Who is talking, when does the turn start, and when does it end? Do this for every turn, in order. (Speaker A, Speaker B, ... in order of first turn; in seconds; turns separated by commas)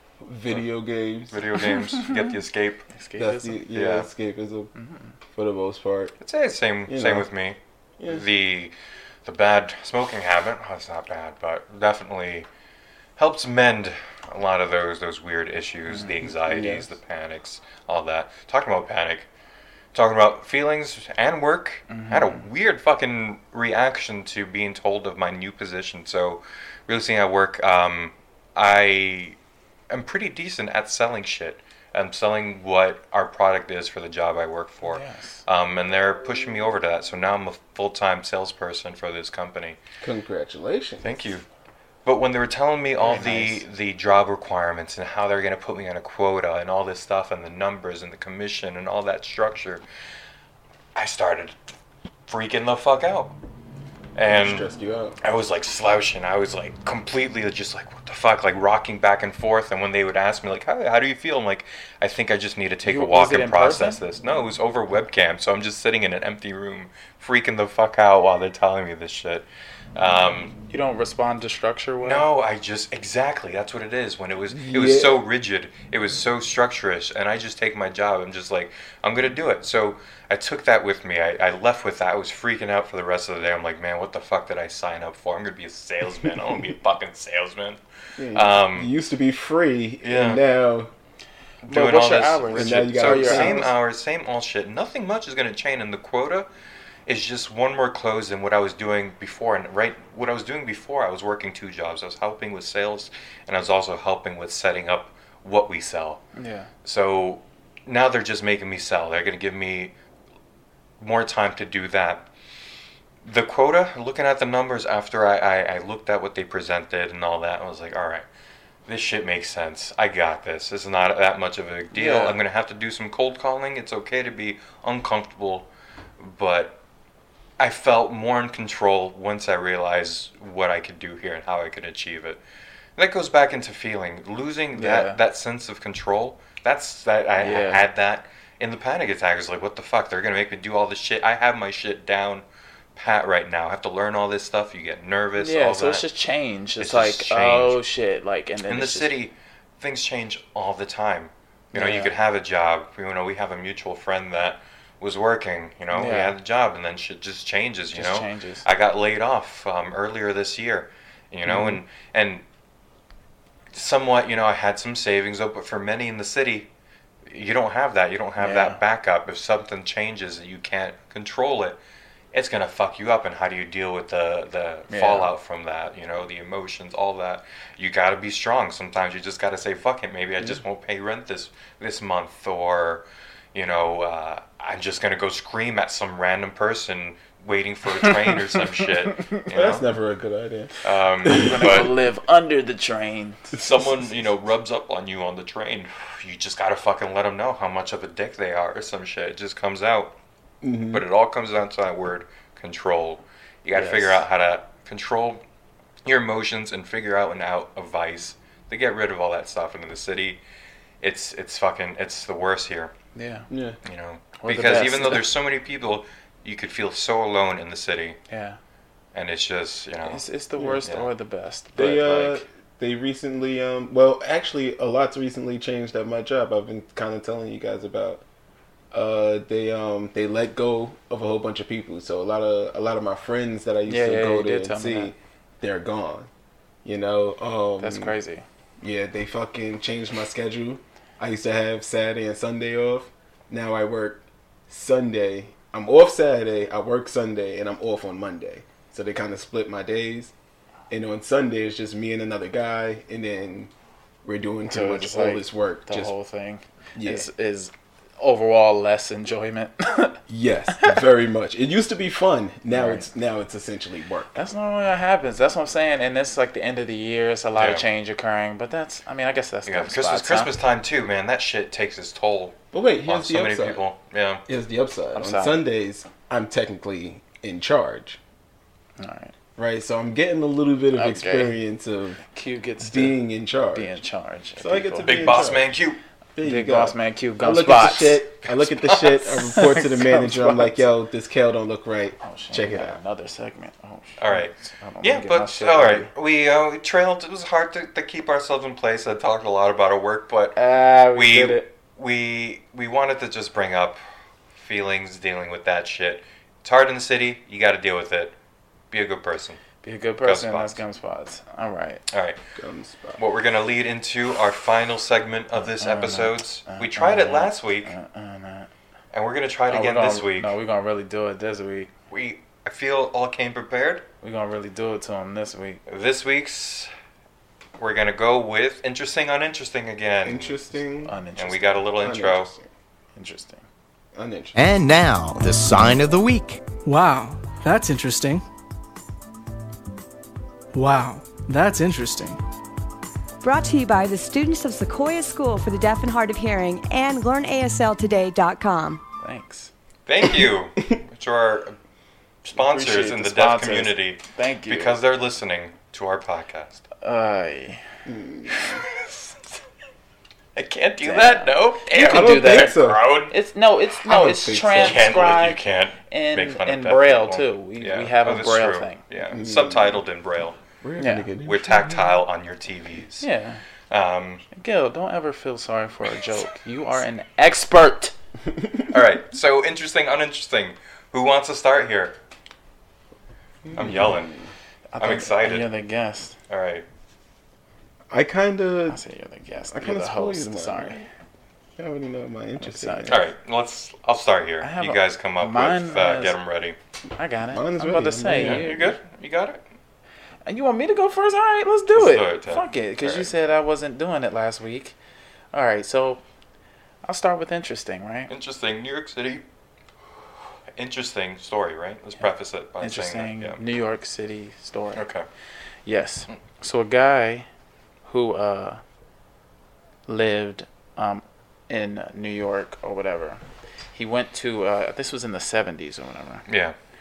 Speaker A: 0.2-1.4, Speaker B: 1.3-2.9, Speaker C: 1.7-2.3, Speaker C: 2.9-3.6, Speaker A: 3.2-4.7, Speaker B: 3.7-4.1, Speaker C: 4.8-5.1, Speaker A: 5.3-6.2, Speaker B: 6.2-7.6, Speaker A: 6.9-7.3, Speaker B: 8.1-8.7, Speaker B: 9.2-12.5, Speaker B: 13.2-19.3, Speaker C: 15.9-16.2, Speaker A: 16.3-16.9, Speaker B: 19.9-29.4, Speaker C: 21.9-22.4, Speaker B: 29.9-39.8, Speaker C: 34.8-35.4, Speaker A: 40.0-41.3, Speaker B: 41.0-41.5, Speaker B: 42.0-49.8, Speaker C: 43.0-43.6, Speaker B: 51.0-51.6, Speaker B: 52.3-53.4, Speaker B: 54.2-54.7, Speaker A: 54.3-55.2, Speaker B: 55.2-70.5, Speaker C: 62.9-64.0, Speaker C: 70.7-72.2, Speaker B: 72.0-87.8, Speaker A: 74.5-75.2, Speaker A: 88.2-90.9, Speaker B: 88.3-88.9, Speaker B: 90.0-90.4, Speaker B: 91.7-96.5, Speaker C: 91.7-93.7, Speaker A: 92.5-93.7, Speaker B: 97.1-106.2, Speaker C: 106.4-106.7, Speaker B: 106.8-109.9, Speaker B: 111.0-112.3, Speaker B: 113.2-118.2, Speaker B: 118.9-126.8, Speaker C: 121.9-122.4, Speaker B: 127.6-132.4, Speaker B: 133.0-146.1, Speaker C: 134.8-135.2, Speaker C: 137.4-137.8, Speaker C: 145.4-149.1, Speaker B: 146.8-147.8, Speaker B: 148.7-162.4, Speaker C: 151.7-152.1, Speaker C: 155.9-156.3, Speaker C: 157.9-158.7, Speaker B: 163.7-166.7, Speaker B: 167.3-171.8, Speaker C: 168.4-168.8, Speaker B: 172.3-189.8, Speaker C: 174.9-175.3, Speaker C: 188.0-188.3, Speaker A: 189.5-191.8, Speaker B: 190.8-191.9, Speaker C: 191.3-193.6, Speaker B: 193.6-200.2, Speaker A: 200.6-201.1, Speaker B: 200.9-205.4, Speaker C: 203.7-204.2, Speaker B: 206.1-210.4, Speaker B: 211.0-212.9, Speaker C: 213.2-213.5, Speaker A: 213.5-213.8, Speaker B: 213.8-218.2, Speaker C: 214.4-215.3, Speaker C: 218.3-218.6, Speaker B: 219.1-220.2, Speaker C: 220.1-222.4, Speaker B: 220.8-221.1, Speaker A: 221.8-228.2, Speaker A: 228.9-236.3, Speaker C: 233.9-235.1, Speaker A: 236.8-238.2, Speaker C: 237.8-238.4, Speaker A: 238.8-250.3, Speaker A: 250.9-253.7, Speaker A: 254.2-256.1, Speaker C: 254.7-260.2, Speaker A: 257.0-257.3, Speaker A: 260.3-264.3, Speaker C: 262.7-263.1, Speaker C: 264.3-270.5, Speaker B: 267.6-267.8, Speaker B: 269.7-274.4, Speaker A: 272.7-273.8, Speaker A: 274.5-278.2, Speaker C: 275.1-275.6, Speaker C: 279.0-279.3, Speaker A: 279.6-282.2, Speaker C: 280.9-281.6, Speaker C: 282.2-283.2, Speaker A: 282.8-284.0, Speaker C: 283.7-285.5, Speaker A: 284.6-285.7, Speaker B: 285.0-286.0, Speaker A: 286.4-293.0, Speaker C: 286.4-288.3, Speaker B: 288.5-288.7, Speaker C: 288.8-290.8, Speaker C: 292.2-296.1, Speaker B: 294.2-304.0, Speaker C: 300.6-301.7, Speaker B: 304.5-308.4, Speaker B: 308.9-309.6, Speaker C: 309.8-312.0, Speaker B: 310.2-310.8, Speaker B: 312.1-312.4, Speaker A: 312.6-313.2, Speaker B: 313.2-317.9, Speaker C: 315.6-318.7, Speaker B: 319.1-320.5, Speaker C: 319.7-321.9, Speaker B: 322.1-324.1, Speaker C: 324.2-325.8, Speaker B: 325.9-326.9, Speaker B: 327.8-330.6, Speaker A: 330.2-331.2, Speaker C: 331.1-331.8, Speaker B: 331.4-332.5, Speaker A: 332.0-332.7, Speaker C: 333.1-333.6, Speaker A: 334.1-334.6, Speaker D: 334.6-336.6, Speaker E: 336.9-338.4, Speaker E: 340.7-342.4, Speaker F: 343.4-349.0, Speaker C: 349.2-349.7, Speaker B: 350.1-351.8, Speaker B: 352.4-356.8, Speaker C: 352.5-355.0, Speaker C: 357.0-357.8, Speaker A: 358.1-358.8, Speaker B: 360.6-363.3, Speaker C: 361.0-369.0, Speaker A: 362.0-363.1, Speaker A: 364.0-365.3, Speaker B: 364.8-370.6, Speaker A: 369.3-370.0, Speaker A: 370.8-372.0, Speaker C: 371.0-371.3, Speaker B: 371.4-373.3, Speaker C: 373.2-373.6, Speaker B: 373.9-374.4, Speaker C: 374.5-378.1, Speaker B: 378.9-382.2, Speaker A: 383.7-384.5, Speaker B: 383.7-384.3, Speaker C: 384.9-386.4, Speaker B: 385.0-385.7, Speaker B: 386.5-386.9, Speaker A: 388.1-389.0, Speaker C: 388.9-391.1, Speaker A: 389.7-391.1, Speaker A: 391.8-393.3, Speaker C: 392.6-393.2, Speaker B: 393.1-396.8, Speaker C: 394.6-396.4, Speaker C: 397.2-399.0, Speaker A: 397.5-398.8, Speaker B: 398.4-399.6, Speaker C: 400.5-404.9, Speaker B: 401.9-403.3, Speaker C: 405.5-406.2, Speaker C: 407.1-408.3, Speaker B: 408.3-409.4, Speaker B: 410.8-413.6, Speaker C: 412.8-415.0, Speaker B: 414.9-415.3, Speaker C: 415.9-417.5, Speaker C: 418.1-418.8, Speaker C: 420.1-423.4, Speaker C: 423.9-426.5, Speaker B: 426.5-426.8